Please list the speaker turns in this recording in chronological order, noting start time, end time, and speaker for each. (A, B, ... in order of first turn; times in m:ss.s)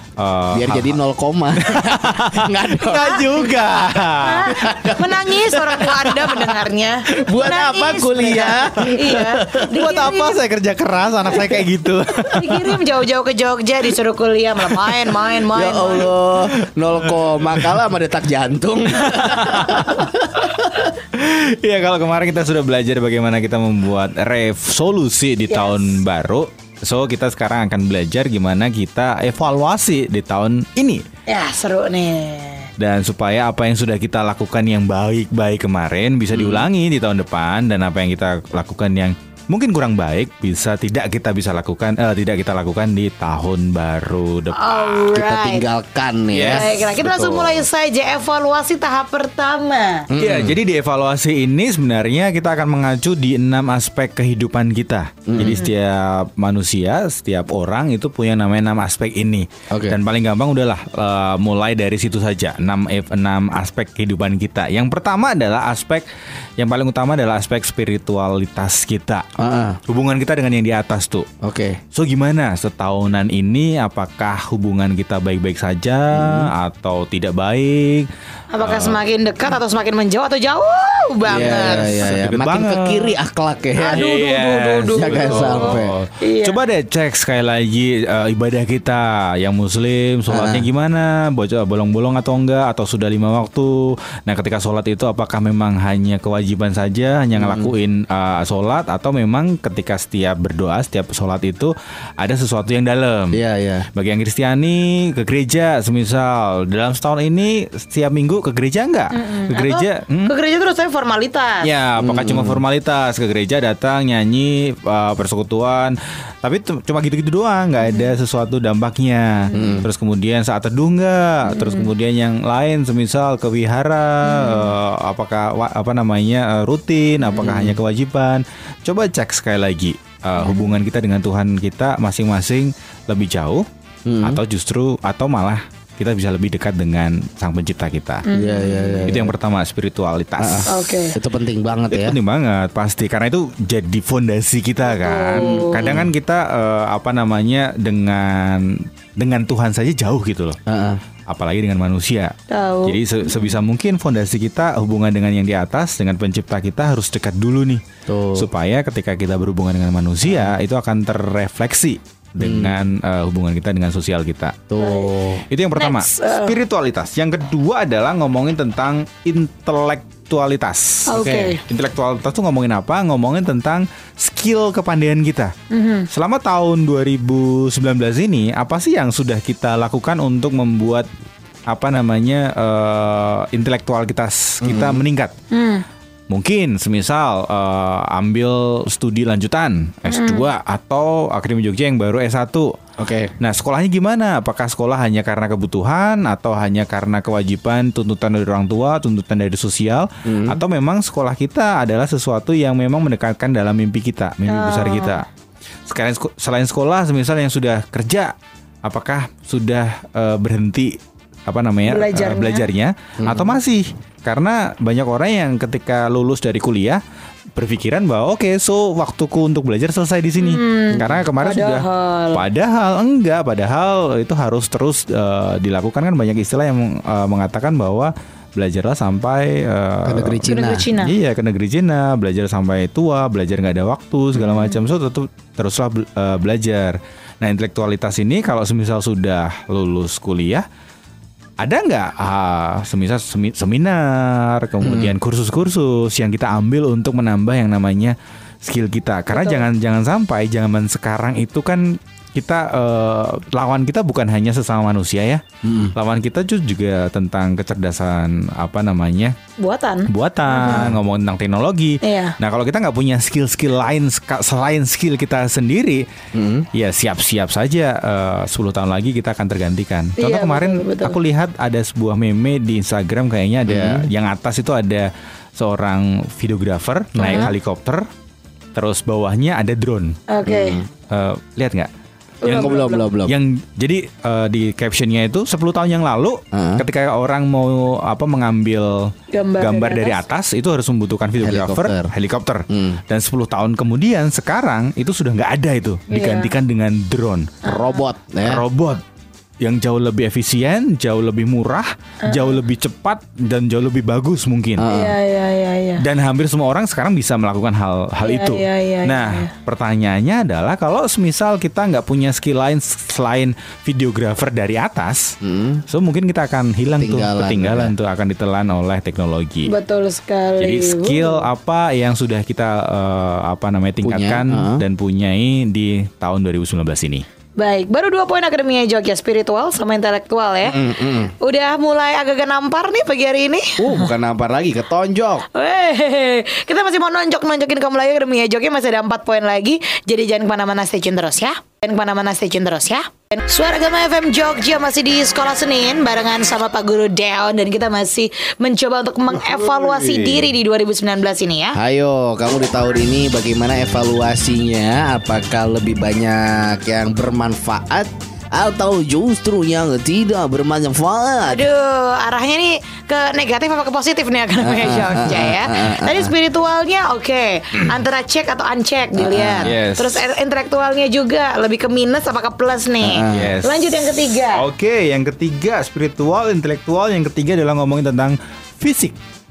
0:00.2-0:01.0 A
0:00.5-0:03.5 B
0:01.6-0:05.7 A
0:04.1-0:10.4 C
0:04.5-0:06.5 B
0:07.1-0:09.6 B
0:08.4-0:12.8 A
0:12.3-0:16.1 C
0:14.6-0:15.2 A
0:15.5-0:20.2 B
0:16.5-0:17.8 A
0:19.0-0:31.0 A
0:25.5-0:26.0 C
0:31.3-0:32.7 C
0:32.8-0:45.2 A
0:36.3-0:36.6 B
0:44.5-0:45.6 C
0:45.1-0:47.6 B
0:46.3-0:46.8 A
0:46.4-0:50.1 C
0:50.1-0:50.6 B
0:50.2-1:06.0 A
0:55.2-0:55.6 B
0:59.7-1:00.0 B
1:06.6-1:09.3 A
1:09.4-1:09.8 B
1:09.9-1:11.3 A
1:11.4-1:11.8 B
1:11.9-1:18.1 A
1:16.1-1:16.5 B
1:18.5-1:22.1 C
1:18.6-1:19.0 A
1:21.2-1:24.0 B
1:21.4-1:23.1 A
1:23.8-1:26.6 C
1:23.9-1:43.4 A
1:25.0-1:25.9 B
1:30.3-1:30.6 B
1:37.4-1:37.7 B
1:43.3-1:43.9 B
1:43.9-1:50.3 A
1:49.1-1:51.7 C
1:51.6-2:13.6 A
1:52.0-1:52.6 B
1:57.8-1:58.1 C
1:59.4-1:59.8 C
1:59.5-1:59.8 B
2:01.5-2:01.9 C
2:04.2-2:04.8 C
2:07.4-2:07.8 B
2:10.4-2:10.7 C
2:14.0-2:14.4 B
2:14.2-2:18.3 A
2:18.3-2:19.1 C
2:18.3-2:19.3 B
2:19.1-2:20.8 A
2:20.4-2:22.2 B
2:20.7-2:21.2 C
2:21.9-2:30.6 A
2:24.8-2:25.9 C
2:25.3-2:26.1 B
2:30.6-2:31.0 B
2:31.3-2:37.8 A
2:32.5-2:33.4 C
2:38.1-2:38.5 B
2:38.3-2:44.7 A
2:40.3-2:40.5 B
2:42.4-2:42.8 B
2:44.7-2:45.4 B
2:44.8-2:45.1 C
2:45.5-2:55.5 A
2:45.8-2:46.6 C
2:51.1-2:51.6 C
2:51.1-2:51.6 B
2:55.7-2:56.1 C
2:56.1-3:01.1 A
3:01.7-3:05.3 A
3:04.6-3:05.0 B
3:05.5-3:05.8 C
3:06.3-3:12.8 A
3:10.1-3:10.4 C
3:13.0-3:13.3 B
3:13.4-3:25.2 A
3:20.2-3:20.6 B
3:24.4-3:25.2 C
3:25.9-3:28.3 A
3:28.8-3:37.0 A
3:31.8-3:32.7 C
3:33.2-3:33.6 B
3:37.5-4:00.6 A
3:40.4-3:42.4 C
3:50.0-3:50.8 B
3:50.5-3:51.2 C
3:54.4-3:54.8 C
4:01.6-4:19.4 A
4:04.8-4:05.1 B
4:09.3-4:09.6 C
4:15.6-4:15.9 B
4:19.6-4:20.9 C
4:20.1-4:26.0 A
4:20.5-4:21.0 B
4:22.0-4:22.4 C
4:26.3-4:26.7 B
4:26.7-4:38.1 A
4:30.2-4:31.2 C
4:33.6-4:34.1 B
4:37.2-4:37.5 C
4:38.7-4:40.2 A
4:40.3-4:40.8 C
4:40.4-4:40.9 B
4:41.1-4:41.9 A
4:42.4-4:43.1 C
4:42.4-4:43.3 B
4:42.4-4:57.7 A
4:46.5-4:46.8 B
4:49.3-4:50.2 C
4:51.4-4:52.1 B
4:52.7-4:53.0 B
4:56.1-4:56.5 C
4:57.6-4:58.6 B
4:57.6-4:58.1 C
4:58.4-4:59.0 A
4:59.6-5:04.8 A
5:02.2-5:02.6 C
5:04.8-5:05.2 B
5:04.9-5:06.0 C
5:06.0-5:15.4 A
5:08.2-5:09.5 C
5:15.4-5:15.8 B
5:15.9-5:19.7 A
5:17.0-5:17.9 B
5:19.6-5:21.5 C
5:20.6-5:27.2 A
5:24.0-5:24.8 B
5:27.6-5:34.1 C
5:30.6-5:31.3 B
5:33.8-5:35.5 B
5:35.5-5:51.8 C
5:49.3-5:50.5 A
5:51.7-6:01.6 B
6:01.4-6:14.6 C
6:04.6-6:06.3 B
6:09.1-6:09.7 B
6:09.6-6:10.2 A
6:13.0-6:13.5 B
6:13.3-6:19.2 A